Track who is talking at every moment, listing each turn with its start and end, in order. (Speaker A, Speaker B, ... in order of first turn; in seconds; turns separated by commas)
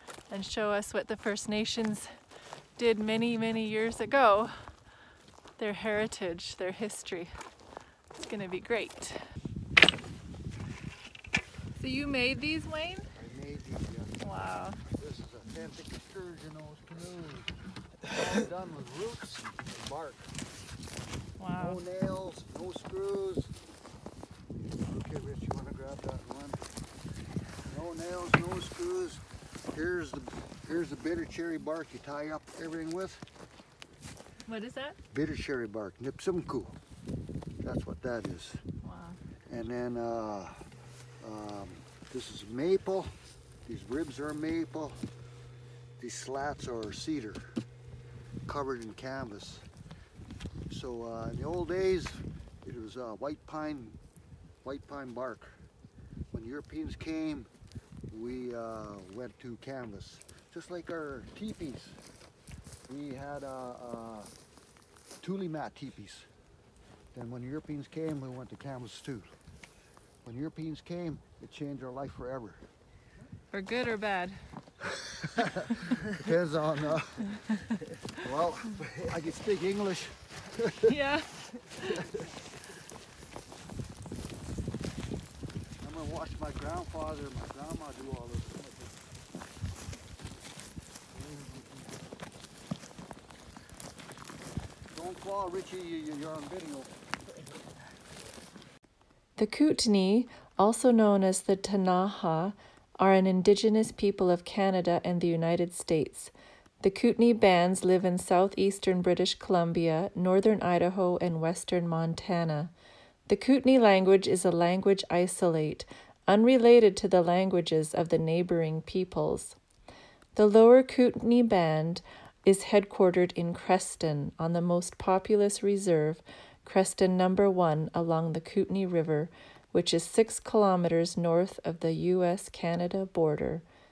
Speaker A: 0.3-2.1, Speaker A: 2.8-4.7, Speaker A: 5.6-7.3, Speaker A: 8.2-9.2, Speaker A: 11.8-13.1, Speaker B: 13.1-20.3, Speaker A: 14.2-14.8, Speaker A: 21.4-21.8, Speaker B: 21.6-23.5, Speaker B: 24.6-26.6, Speaker B: 27.7-33.2, Speaker A: 34.5-35.0, Speaker B: 35.1-36.8, Speaker B: 37.6-38.6, Speaker A: 38.8-39.2, Speaker B: 39.5-40.6, Speaker B: 41.2-43.1, Speaker B: 43.6-45.0, Speaker B: 46.0-47.5, Speaker B: 48.5-49.7, Speaker B: 50.7-54.0, Speaker B: 54.6-55.5, Speaker B: 56.3-57.5, Speaker B: 58.1-62.0, Speaker B: 62.9-64.3, Speaker B: 65.2-66.3, Speaker B: 67.1-69.3, Speaker B: 70.2-72.6, Speaker A: 73.5-74.4, Speaker B: 75.1-77.6, Speaker B: 78.1-80.9, Speaker A: 80.9-82.1, Speaker B: 81.9-82.2, Speaker B: 85.8-89.0, Speaker B: 91.1-91.8, Speaker B: 94.9-96.9, Speaker A: 99.4-112.7, Speaker A: 113.3-119.6, Speaker A: 120.3-133.6